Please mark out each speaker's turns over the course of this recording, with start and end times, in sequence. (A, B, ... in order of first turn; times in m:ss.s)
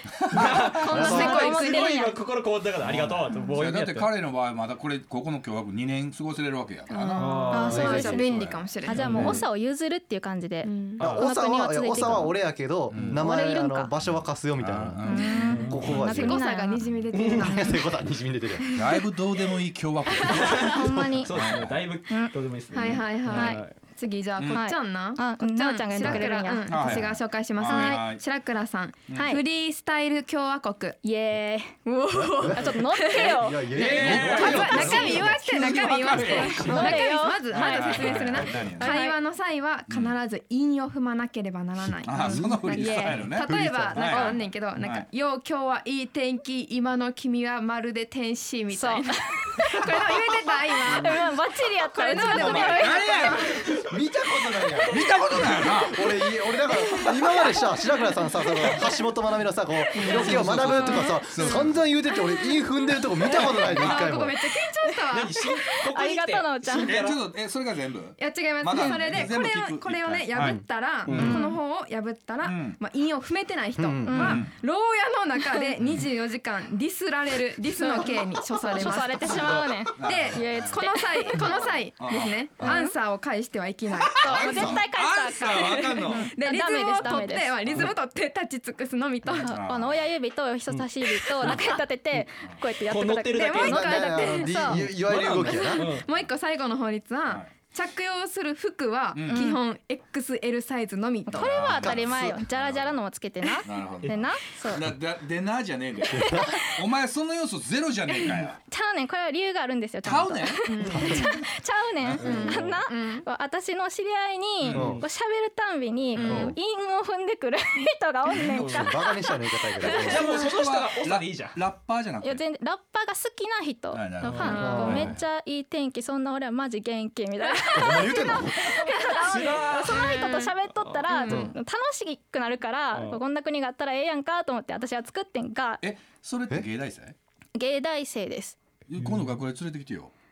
0:00.2-0:01.0 A
0:00.3-0:04.1 B
0:00.8-0:02.0 C
0:00.9-0:01.4 D
0:00.9-0:02.1 E
0:02.8-0:08.6 A
0:06.9-0:09.4 C
0:07.2-0:07.9 B
0:07.5-0:12.4 E
0:07.7-0:08.3 D
0:08.9-0:09.4 B
0:09.0-0:09.4 D
0:10.6-0:11.0 C
0:11.0-0:15.0 D
0:12.9-0:13.2 A
0:13.0-0:13.9 E
0:14.0-0:16.0 A
0:15.0-0:16.8 E
0:15.4-0:15.8 B
0:15.7-0:16.4 D
0:16.0-0:17.8 C
0:17.1-0:17.5 B
0:17.4-0:18.8 D
0:18.6-0:19.0 C
0:18.7-0:20.7 A
0:20.2-0:20.7 C
0:20.3-0:20.7 B
0:20.7-0:21.3 E
0:20.8-0:21.2 D
0:21.2-0:23.7 B
0:21.3-0:21.8 A
0:22.7-0:31.0 C
0:23.3-0:23.6 E
0:24.5-0:26.7 E
0:26.7-0:28.2 A
0:27.6-0:28.0 E
0:29.1-0:29.4 E
0:31.0-0:33.7 E
0:31.9-0:51.3 C
0:32.4-0:35.4 D
0:33.7-0:37.0 B
0:33.9-0:39.0 A
0:36.4-0:39.2 E
0:39.9-0:40.2 A
0:42.0-0:45.1 A
0:42.3-0:42.8 D
0:42.6-0:43.4 E
0:43.4-0:44.0 D
0:44.0-0:44.4 E
0:48.7-0:50.0 E
0:50.9-0:53.4 E
0:51.9-0:53.6 C
0:52.1-0:53.6 A
0:53.9-1:04.4 D
0:54.9-0:56.0 A
0:59.9-1:02.4 C
1:00.0-1:00.4 B
1:00.1-1:01.8 A
1:03.2-1:05.4 C
1:03.3-1:04.1 A
1:05.1-1:07.2 B
1:05.9-1:07.0 E
1:06.8-1:11.4 A
1:08.2-1:24.8 C
1:10.4-1:10.6 D
1:11.0-1:11.4 B
1:11.2-1:11.6 E
1:12.4-1:12.8 A
1:13.8-1:14.4 D
1:14.0-1:14.4 E
1:14.2-1:14.5 A
1:17.8-1:21.6 E
1:19.9-1:20.7 A
1:21.4-1:22.7 A
1:22.6-1:22.9 E
1:24.0-1:26.3 A
1:24.2-1:27.5 E
1:24.2-1:24.8 D
1:25.4-1:29.5 C
1:29.4-1:34.8 E
1:29.4-1:30.1 A
1:31.3-1:31.7 C
1:32.9-1:34.0 B
1:33.3-1:34.5 C
1:33.6-1:35.9 D
1:34.8-1:36.0 B
1:35.1-1:35.4 A
1:35.1-1:41.7 C
1:39.1-1:39.5 A
1:39.3-1:39.6 E
1:41.3-1:44.8 E
1:41.3-1:43.0 A
1:41.8-1:42.4 D
1:43.6-1:48.6 A
1:46.1-1:46.5 D
1:46.3-1:46.7 E
1:48.7-1:59.3 E
1:50.0-1:51.2 A
1:50.7-1:51.3 C
1:50.9-1:51.2 D
1:52.0-1:52.3 A
1:52.2-1:53.2 C
1:52.3-1:52.6 B
1:54.6-1:55.0 A
1:54.7-1:55.0 D
1:54.7-1:55.0 B
1:56.2-1:56.5 C
1:56.2-1:56.5 D
1:58.5-2:00.3 D
1:58.5-1:58.8 B
1:59.9-2:00.4 E
2:00.0-2:01.6 B
2:00.4-2:02.4 A
2:02.2-2:15.8 E
2:03.9-2:05.2 A
2:04.3-2:04.6 B
2:04.4-2:05.1 C
2:04.6-2:05.1 D
2:07.5-2:10.5 C
2:07.8-2:08.8 D
2:09.3-2:10.3 B
2:11.1-2:11.5 C
2:11.3-2:11.5 D
2:12.9-2:13.2 B
2:15.8-2:17.1 A
2:17.6-2:18.6 E
2:18.9-2:20.1 A
2:19.0-2:19.3 B